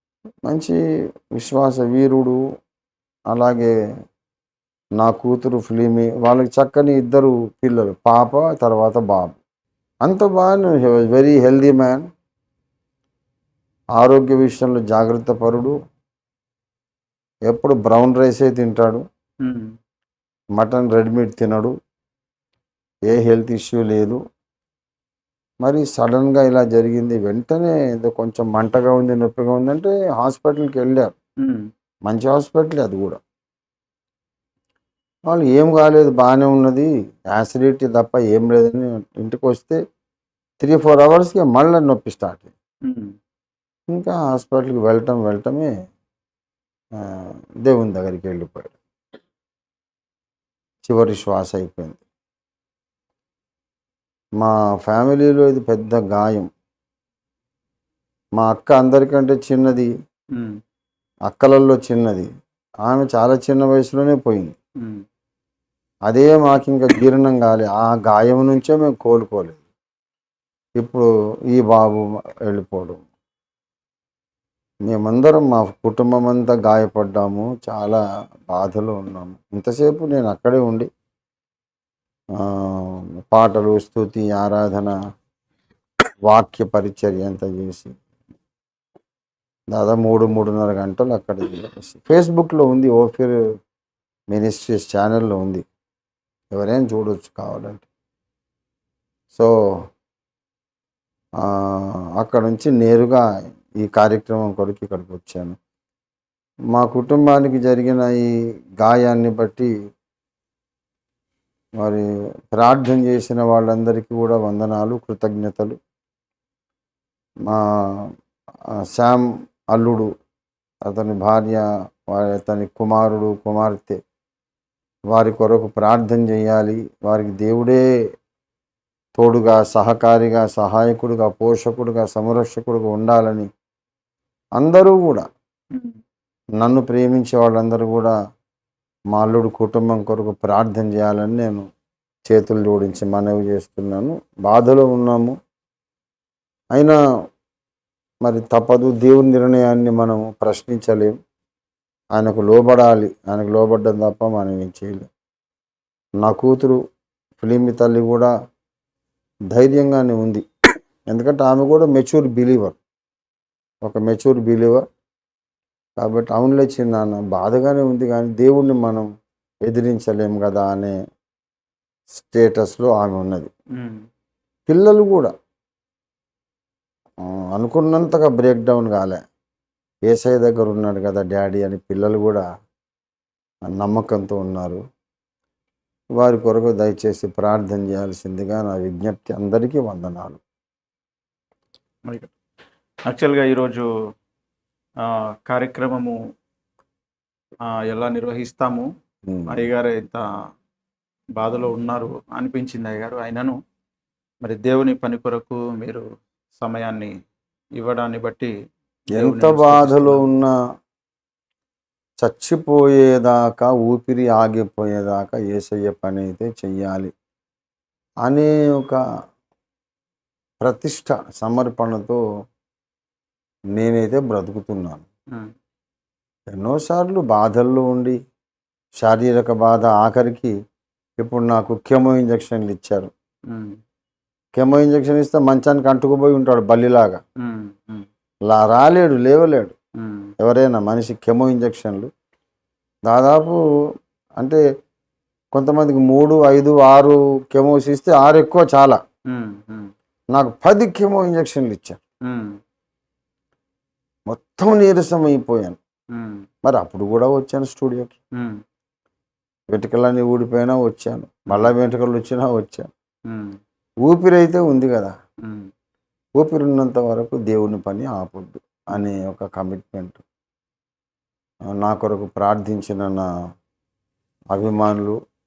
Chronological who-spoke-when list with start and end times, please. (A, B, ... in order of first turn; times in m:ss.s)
0:00.5-0:00.8 A
0:01.3-0:02.4 A
0:03.3-0:03.7 A
0:05.0-0:09.4 A
0:10.0-0:12.1 A
0:14.0-0:15.7 A
0:17.5-0:19.0 A
0:19.4-0:19.7 B
0:20.6-0:21.7 A
0:23.1-0:24.2 A
0:25.6-0:31.1 A
0:32.1-0:33.2 A
0:35.3-0:39.8 A
0:40.6-0:42.5 A
0:42.9-0:43.1 B
0:43.9-0:45.7 A
0:47.0-0:48.8 A
0:50.8-0:52.0 A
0:54.4-0:56.5 A
0:58.4-0:59.9 A
1:01.3-1:02.3 A
1:02.8-1:04.6 A
1:06.1-1:09.6 A
1:10.8-1:13.0 A
1:14.9-1:20.9 A
1:22.4-1:24.9 A
1:26.3-1:27.9 A
1:29.7-1:33.4 A
1:34.3-1:35.6 A
1:36.5-1:37.8 A
1:41.4-1:43.2 A
1:43.8-1:45.6 A
1:46.7-1:49.7 A
1:51.8-1:55.8 A
1:57.5-1:58.1 A
1:58.9-2:00.1 A
2:00.8-2:04.0 A
2:05.1-2:07.8 A
2:09.2-2:13.5 A
2:14.6-2:15.3 A
2:16.6-2:18.1 A
2:19.1-2:21.6 A
2:22.3-2:25.4 A
2:28.2-2:31.1 A
2:32.1-2:35.1 A
2:36.2-2:36.8 A
2:37.4-2:38.3 A
2:39.5-2:40.4 A
2:41.1-2:42.8 A
2:43.8-2:44.8 A
2:46.0-2:49.1 A
2:49.6-2:50.9 A
2:52.1-2:53.5 A
2:54.7-2:55.3 A
2:57.2-2:59.2 A
3:00.1-3:02.4 A
3:03.7-3:04.8 A
3:06.2-3:10.4 A
3:13.1-3:13.9 B
3:15.0-3:16.2 B
3:17.7-3:18.9 B
3:19.3-3:19.7 A
3:19.5-3:20.2 B
3:21.4-3:23.6 B
3:24.4-3:26.0 B
3:26.6-3:27.1 B
3:27.8-3:28.5 B
3:29.1-3:30.2 B
3:29.1-3:30.6 A
3:32.2-3:37.1 A
3:38.2-3:39.0 A
3:40.6-3:42.2 A
3:43.8-3:45.0 A
3:46.5-3:48.2 A
3:49.0-3:50.5 A
3:51.2-3:53.1 A
3:53.5-3:53.8 B
3:54.6-3:57.2 A
3:57.4-3:58.1 B
3:58.5-3:59.7 A
4:00.0-4:00.3 B
4:00.4-4:02.1 A
4:03.1-4:03.6 A
4:05.5-4:09.0 A
4:09.3-4:09.9 B
4:10.3-4:12.0 A
4:12.3-4:12.6 B
4:14.3-4:15.8 A
4:16.1-4:16.4 B
4:16.6-4:18.2 A
4:19.7-4:22.9 A
4:23.3-4:23.6 B
4:24.1-4:25.1 A
4:25.4-4:25.7 B
4:26.4-4:30.2 A
4:31.7-4:33.3 A
4:34.5-4:35.2 A